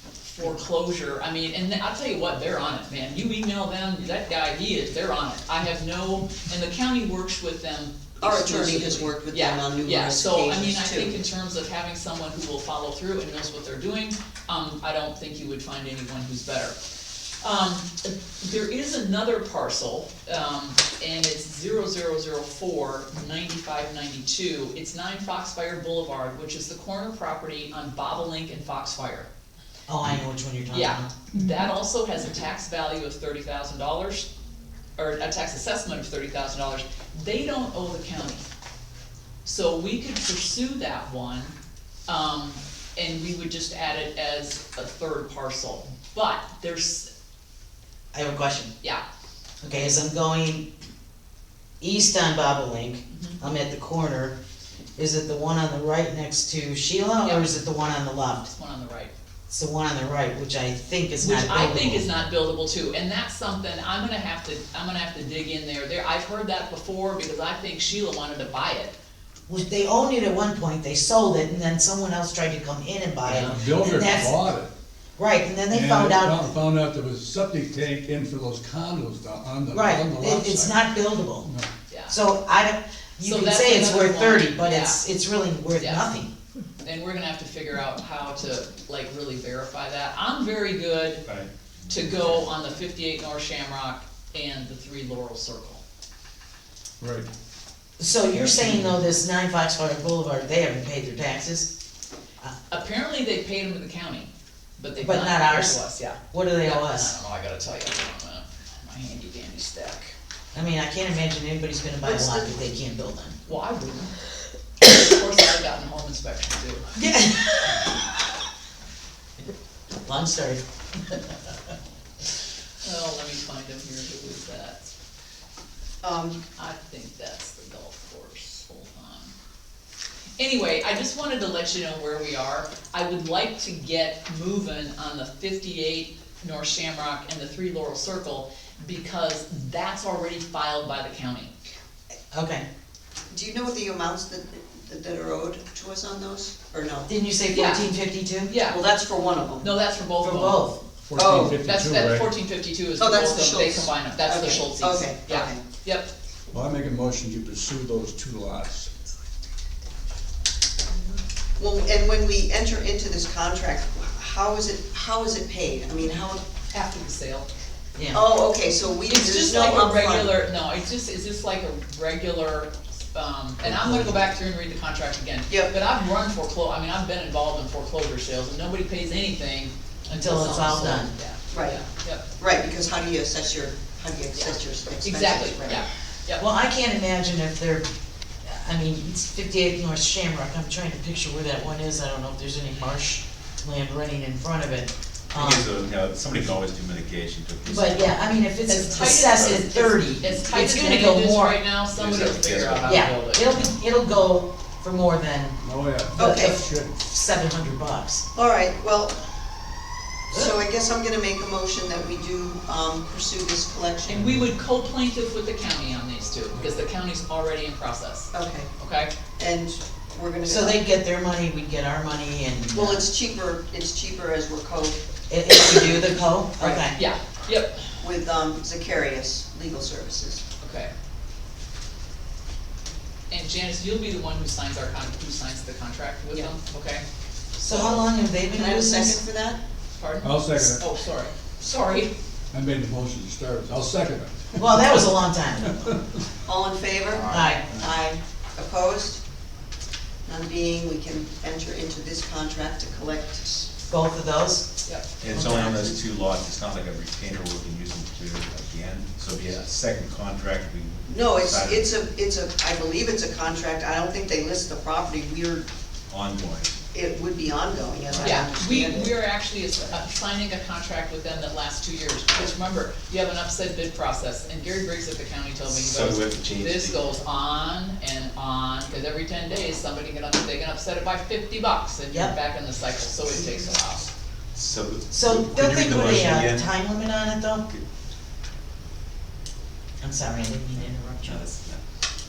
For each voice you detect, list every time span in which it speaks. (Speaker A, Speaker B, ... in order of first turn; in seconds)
Speaker A: 0.2-16.8, 17.4-29.3, 30.7-34.3, 35.0-38.4, 39.4-41.5, 42.1-47.1, 53.1-53.4, 57.2-57.5, 58.5-59.1, 61.2-68.9, 81.9-82.2, 83.2-85.0, 85.8-86.0, 86.8-91.2, 91.9-95.8, 102.7-110.1, 113.4-114.1, 114.8-116.9, 122.8-124.9, 126.5-129.3, 130.4-141.5, 147.5-147.9, 148.5-148.8, 149.6-150.7, 151.6-156.1, 166.7-167.5, 169.1-182.2, 184.3-186.4, 198.7-203.6, 214.1-219.1, 226.9-227.9, 230.6-230.9, 233.3-237.0, 237.7-238.0, 239.9-242.1, 247.3-247.6, 268.2-284.1
Speaker B: 8.2-11.2, 112.0-112.5, 126.0-126.4, 143.3-147.1, 148.7-149.7, 151.2-151.6, 153.0-155.6, 161.6-166.4, 168.1-170.3, 181.5-181.8, 182.4-185.8, 206.2-206.6, 208.3-209.2, 210.3-214.3, 218.3-218.7, 219.4-220.8, 222.7-225.0, 226.6-226.8, 228.0-230.4, 238.5-239.6, 246.4-249.2, 250.2-253.7, 255.4-256.0, 261.0-265.6, 266.9-269.2
Speaker C: 29.9-31.1, 48.1-48.7, 49.6-50.7, 51.8-54.4, 55.0-58.5, 59.5-62.0, 69.5-74.4, 75.2-76.5, 79.7-81.5, 82.1-86.3, 98.0-101.7, 105.0-107.1, 110.5-113.4, 116.9-118.0, 120.0-121.3, 142.3-142.6, 147.1-148.5, 150.2-150.8, 167.9-168.2, 180.1-181.1, 186.4-187.9, 188.4-195.7, 197.6-201.6, 202.8-205.6, 206.2-208.2, 220.4-223.0, 225.3-227.0, 237.6-239.2, 244.6-246.0, 247.2-247.6, 253.8-254.7, 255.3-255.8, 285.1-287.6, 290.0-291.4
Speaker D: 73.2-74.7, 75.7-80.8, 81.4-81.7, 97.0-97.3, 98.3-98.9, 151.1-152.3, 156.5-158.9, 173.6-174.1, 205.6-206.9, 240.2-240.8, 242.5-245.0, 245.7-246.0
Speaker E: 91.2-92.5, 195.3-199.8, 201.9-203.7, 247.2-247.5, 255.2-262.0, 266.1-266.8, 275.6-277.1, 284.5-286.6, 291.2-291.8